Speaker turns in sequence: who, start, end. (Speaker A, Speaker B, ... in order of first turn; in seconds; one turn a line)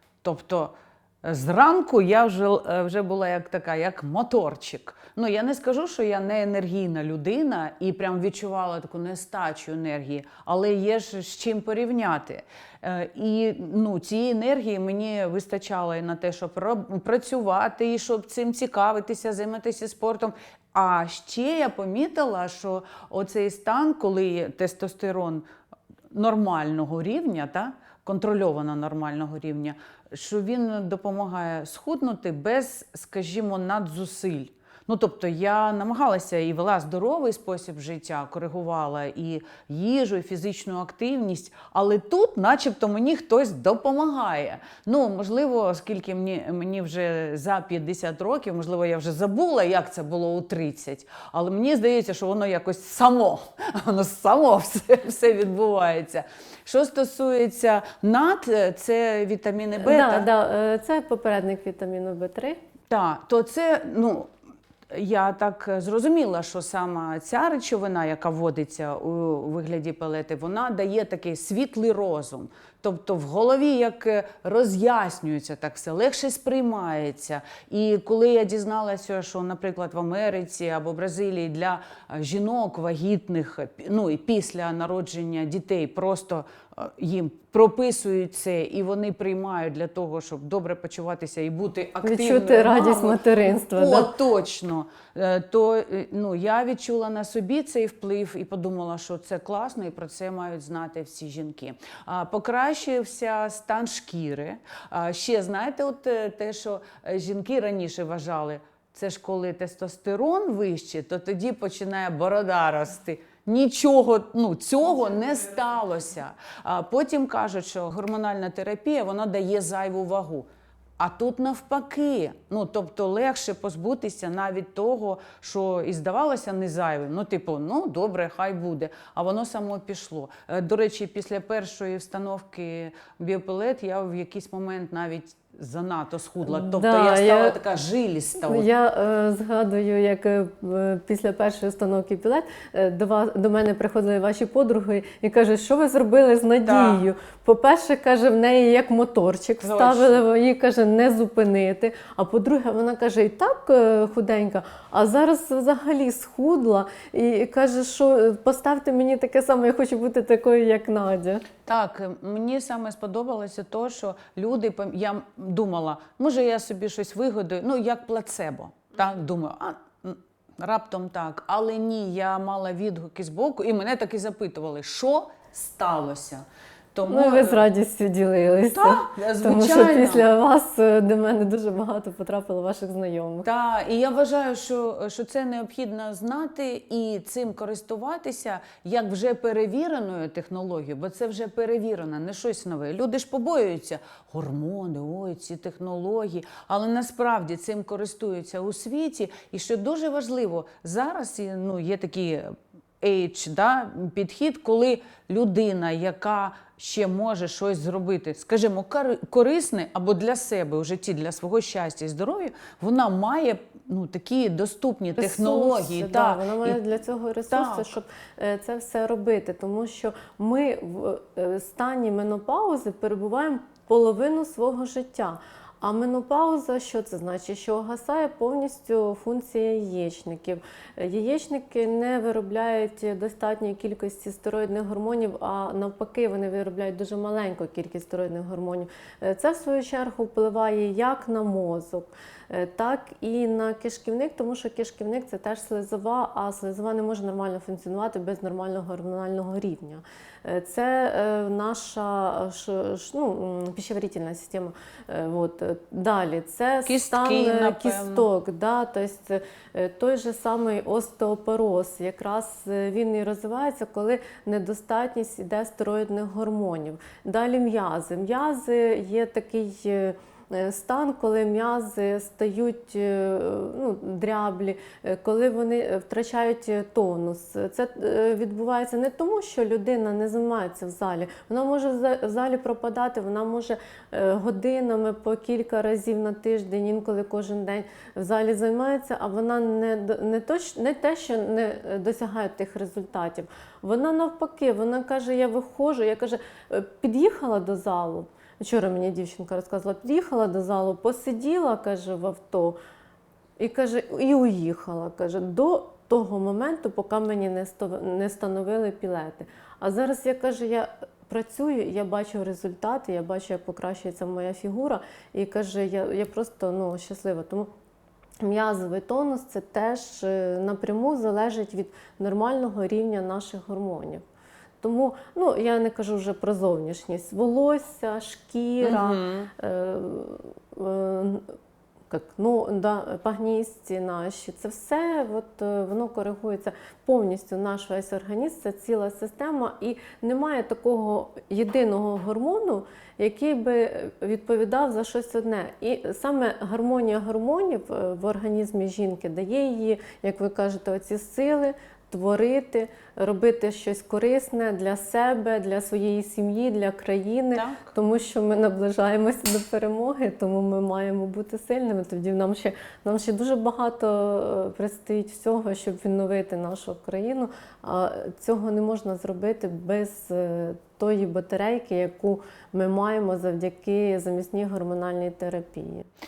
Speaker A: 0.2-25.4
Speaker A: 26.1-60.3
Speaker B: 59.8-62.6
Speaker A: 62.9-64.3
Speaker A: 64.9-120.5
Speaker B: 92.0-94.2
Speaker A: 121.0-138.7
Speaker B: 136.5-137.6
Speaker B: 138.4-161.4
Speaker A: 146.7-147.0
Speaker A: 149.6-150.2
Speaker A: 161.7-177.6
Speaker B: 177.1-183.5
Speaker A: 178.7-180.3
Speaker A: 183.4-202.5
Speaker A: 203.0-216.8
Speaker B: 215.2-302.8
Speaker A: 217.5-217.9
Speaker A: 256.9-258.3
Speaker B: 303.6-317.7
Speaker B: 318.4-324.2
Speaker B: 324.8-331.5
Speaker A: 328.8-329.5
Speaker B: 332.1-376.1
Speaker A: 357.6-357.9